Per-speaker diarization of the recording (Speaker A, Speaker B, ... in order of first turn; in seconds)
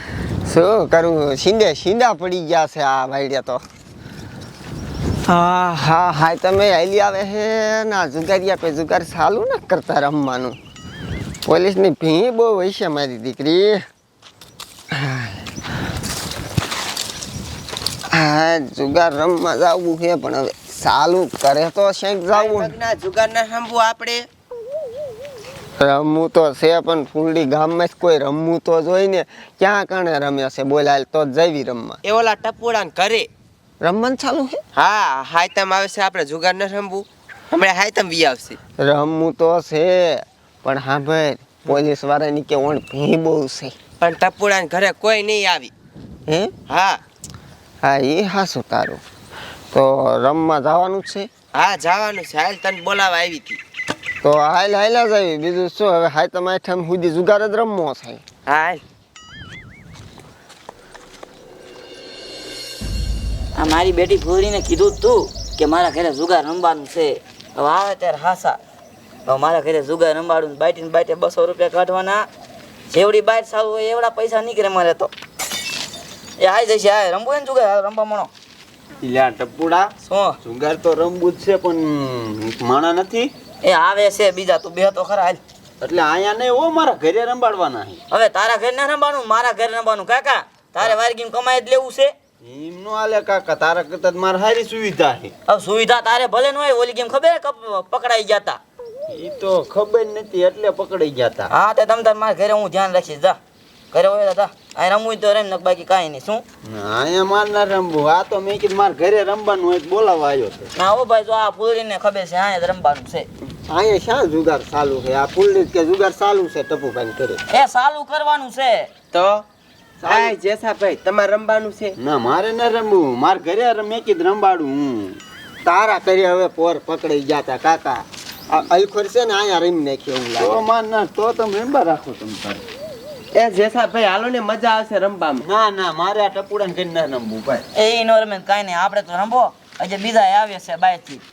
Speaker A: 0.4-3.6, 5.3-10.6, 11.4-13.8, 14.9-15.4, 18.1-22.7, 25.8-32.0, 33.8-34.6, 38.8-43.7, 46.3-46.5, 47.8-49.0, 49.7-51.3, 54.2-58.2, 113.7-117.4, 120.0-120.3, 125.6-130.6
Speaker B: 22.3-24.3, 32.0-33.3, 34.8-38.6, 44.0-45.7, 46.7-47.0, 51.5-53.6, 58.5-58.8, 119.1-119.4, 120.0-122.0, 133.3-135.4
Speaker C: 63.5-68.6, 69.3-72.2, 72.9-75.1, 76.4-78.3, 80.1-80.3, 83.6-85.4, 88.1-92.1, 95.5-98.6, 101.5-103.4, 103.9-106.4, 110.8-113.3, 117.5-118.9, 137.7-141.2
Speaker D: 79.0-83.3, 85.8-88.0, 92.4-95.3, 99.1-101.5, 106.7-110.7, 122.0-125.2, 130.4-132.6, 135.4-137.6